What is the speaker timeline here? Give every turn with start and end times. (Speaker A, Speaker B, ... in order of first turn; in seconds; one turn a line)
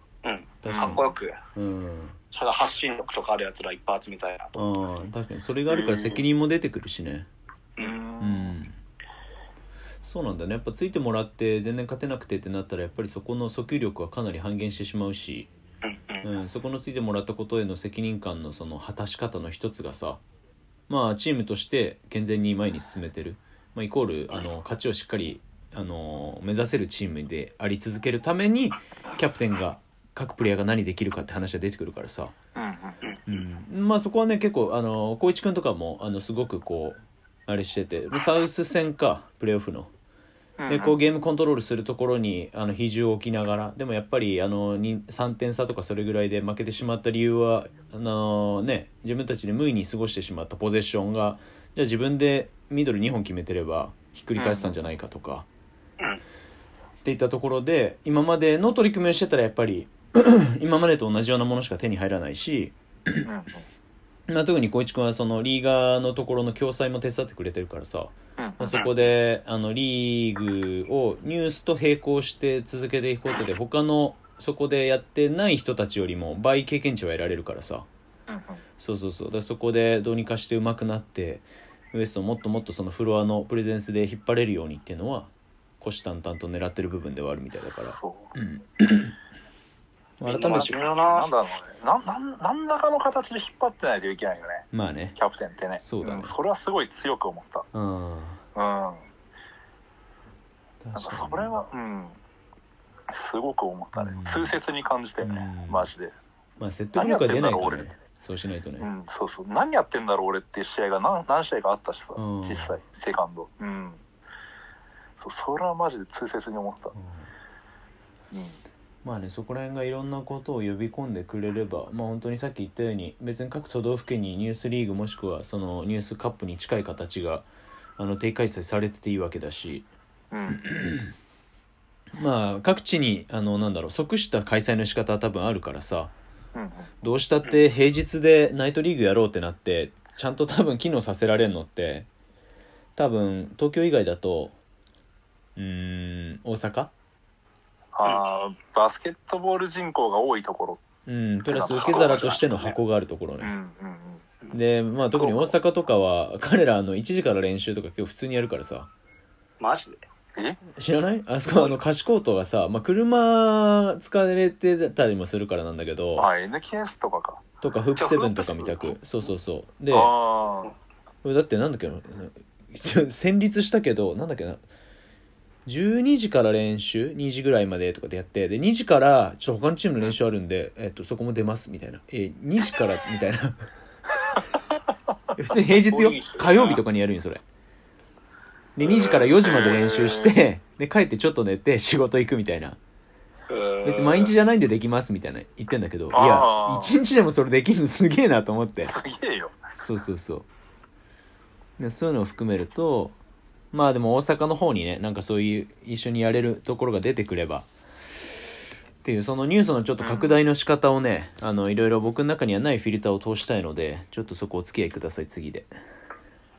Speaker A: 0.2-1.4
Speaker B: 0.6-2.2
Speaker A: 2.3-5.1
Speaker B: 4.5-7.3
Speaker C: 5.7-6.2
Speaker A: 7.8-8.0
Speaker C: 7.8-8.6
Speaker B: 8.2-8.8
Speaker B: 10.0-15.5
Speaker A: 15.8-16.2
Speaker B: 16.2-20.2
Speaker B: 20.9-32.3
Speaker C: 32.5-33.0
Speaker A: 33.0-33.4
Speaker B: 33.3-39.9
Speaker C: 40.6-41.0
Speaker B: 40.7-55.5
Speaker C: 54.4-54.8
Speaker B: 57.0-62.7
Speaker C: 63.2-63.6
Speaker B: 64.3-77.8
Speaker C: 68.4-68.7
Speaker C: 78.3-78.6
Speaker B: 78.8-89.1
Speaker C: 87.8-88.3
Speaker B: 90.2-90.7
Speaker A: 90.2-91.3
Speaker C: 90.5-94.6
Speaker B: 94.7-95.2
Speaker C: 95.2-97.7
Speaker B: 95.8-96.3
Speaker B: 97.7-98.4
Speaker C: 98.5-99.0
Speaker B: 100.8-101.6
Speaker C: 100.9-102.2
Speaker C: 103.1-106.1
Speaker B: 103.9-104.6
Speaker B: 105.2-105.9
Speaker B: 106.6-108.9
Speaker C: 106.9-107.9
Speaker C: 108.8-114.0
Speaker B: 112.2-112.7
Speaker C: 115.2-116.9
Speaker B: 116.9-117.2
Speaker C: 118.3-118.6
Speaker B: 119.0-127.5
Speaker B: 128.0-129.9
Speaker C: 130.3-130.6
Speaker B: 130.6-131.1
Speaker B: 132.1-136.1
Speaker C: 136.5-136.9
Speaker B: 137.0-142.1
Speaker B: 143.0-144.6
Speaker B: 145.6-146.9
Speaker C: 147.9-150.8
Speaker B: 151.1-153.5
Speaker C: 151.4-152.3
Speaker A: 151.7-152.8
Speaker C: 153.4-154.2
Speaker B: 154.5-158.9
Speaker A: 159.6-160.0
Speaker B: 160.8-166.3
Speaker C: 166.2-167.4
Speaker B: 167.6-170.1
Speaker A: 168.0-169.0
Speaker C: 169.9-170.7
Speaker B: 171.2-174.6
Speaker B: 175.7-183.6
Speaker B: 185.3-187.4
Speaker A: 185.9-186.8
Speaker B: 188.8-192.8
Speaker C: 188.8-190.3
Speaker A: 193.5-194.3
Speaker B: 193.8-199.0
Speaker C: 196.1-197.0
Speaker C: 198.8-199.6
Speaker B: 199.8-200.4
Speaker B: 201.8-203.2
Speaker B: 203.7-207.7
Speaker B: 209.0-215.7
Speaker C: 210.0-210.4